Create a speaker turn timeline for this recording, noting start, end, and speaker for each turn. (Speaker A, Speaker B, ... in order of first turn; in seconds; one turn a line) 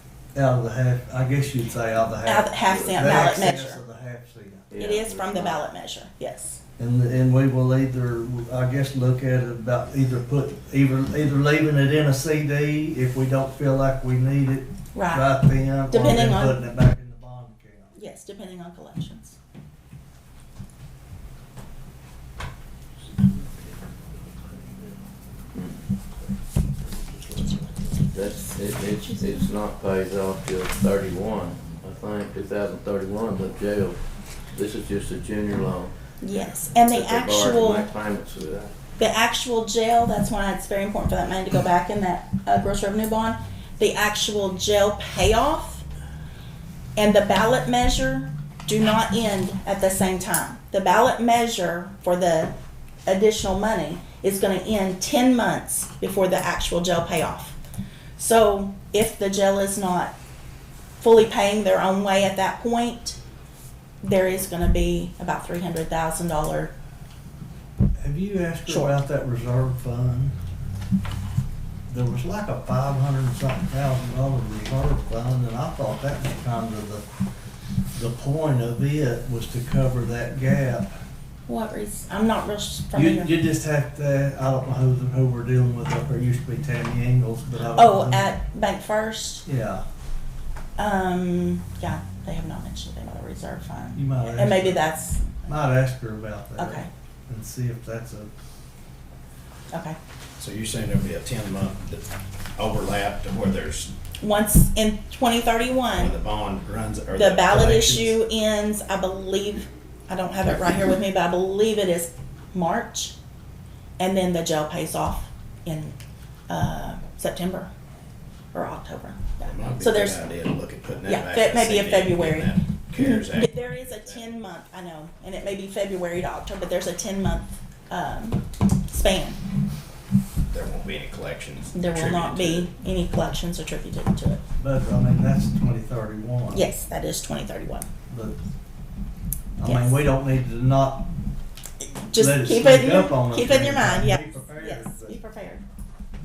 Speaker A: 0.3-4.7
Speaker B: 2.2-3.8
Speaker C: 2.7-3.4
Speaker C: 4.7-5.6
Speaker B: 4.8-6.6
Speaker A: 6.8-18.0
Speaker B: 14.9-15.3
Speaker B: 15.9-16.6
Speaker B: 17.9-19.4
Speaker C: 28.1-34.0
Speaker B: 29.0-29.5
Speaker C: 34.5-35.9
Speaker B: 36.2-37.9
Speaker C: 36.8-38.7
Speaker B: 39.0-45.9
Speaker B: 47.0-52.5
Speaker B: 53.1-57.6
Speaker B: 58.2-60.1
Speaker B: 61.0-63.2
Speaker B: 64.0-66.7
Speaker A: 68.0-70.4
Speaker B: 68.7-68.9
Speaker A: 71.9-77.0
Speaker A: 77.9-80.9
Speaker B: 81.5-83.3
Speaker A: 82.9-88.3
Speaker B: 87.8-89.4
Speaker A: 89.5-89.8
Speaker B: 90.8-95.5
Speaker A: 94.0-98.3
Speaker B: 96.6-96.9
Speaker B: 99.7-100.0
Speaker D: 100.4-103.9
Speaker B: 104.2-106.1
Speaker D: 106.0-108.2
Speaker B: 107.2-113.2
Speaker B: 114.0-116.0
Speaker B: 116.5-117.7
Speaker B: 118.5-120.2
Speaker D: 119.4-123.6
Speaker B: 121.1-129.4
Speaker D: 130.5-132.7
Speaker B: 131.8-134.4
Speaker A: 134.6-136.7
Speaker B: 136.5-137.9
Speaker A: 138.1-138.4
Speaker A: 139.6-141.1
Speaker B: 139.6-140.0
Speaker B: 141.8-145.6
Speaker A: 142.1-145.2